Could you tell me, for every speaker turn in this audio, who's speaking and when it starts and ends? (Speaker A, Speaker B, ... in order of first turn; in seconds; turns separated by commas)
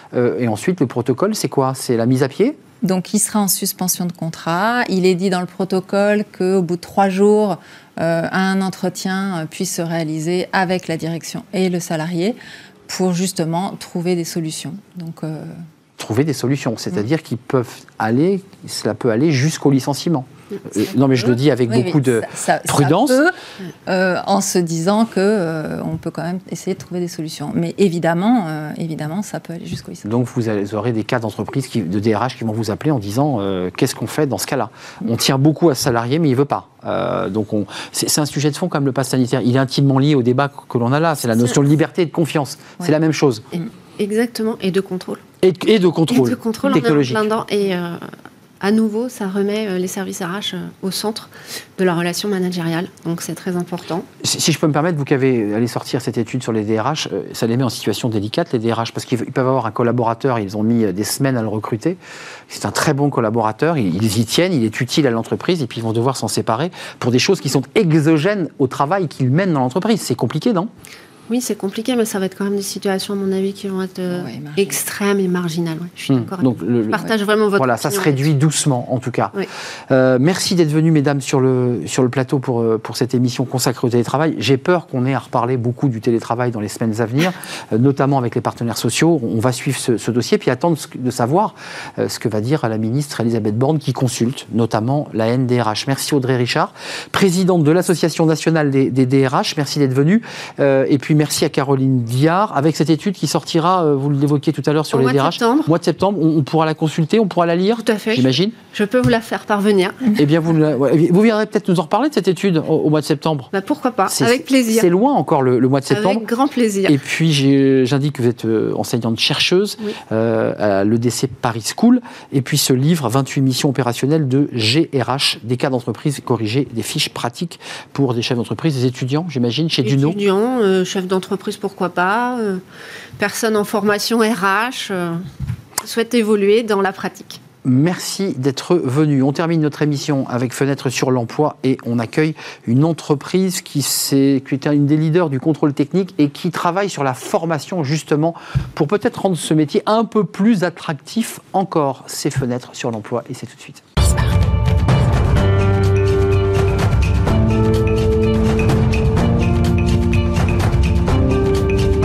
Speaker A: 0.1-2.6, Speaker B: 2.8-15.6, Speaker A: 16.0-23.2, Speaker B: 20.8-23.3, Speaker B: 23.9-30.1, Speaker A: 30.0-43.5, Speaker C: 44.0-45.2, Speaker A: 45.4-47.3, Speaker C: 46.1-48.1, Speaker C: 48.6-54.0, Speaker A: 54.2-70.7, Speaker C: 71.3-78.2, Speaker B: 74.1-74.8, Speaker A: 76.1-77.0, Speaker A: 77.6-108.5, Speaker C: 104.9-105.7, Speaker C: 107.8-110.1, Speaker A: 110.1-113.5, Speaker C: 113.5-114.9, Speaker A: 114.1-116.2, Speaker C: 115.9-117.0, Speaker A: 116.9-130.2, Speaker C: 129.8-132.6, Speaker C: 133.2-135.2, Speaker C: 135.8-137.4, Speaker A: 137.6-153.8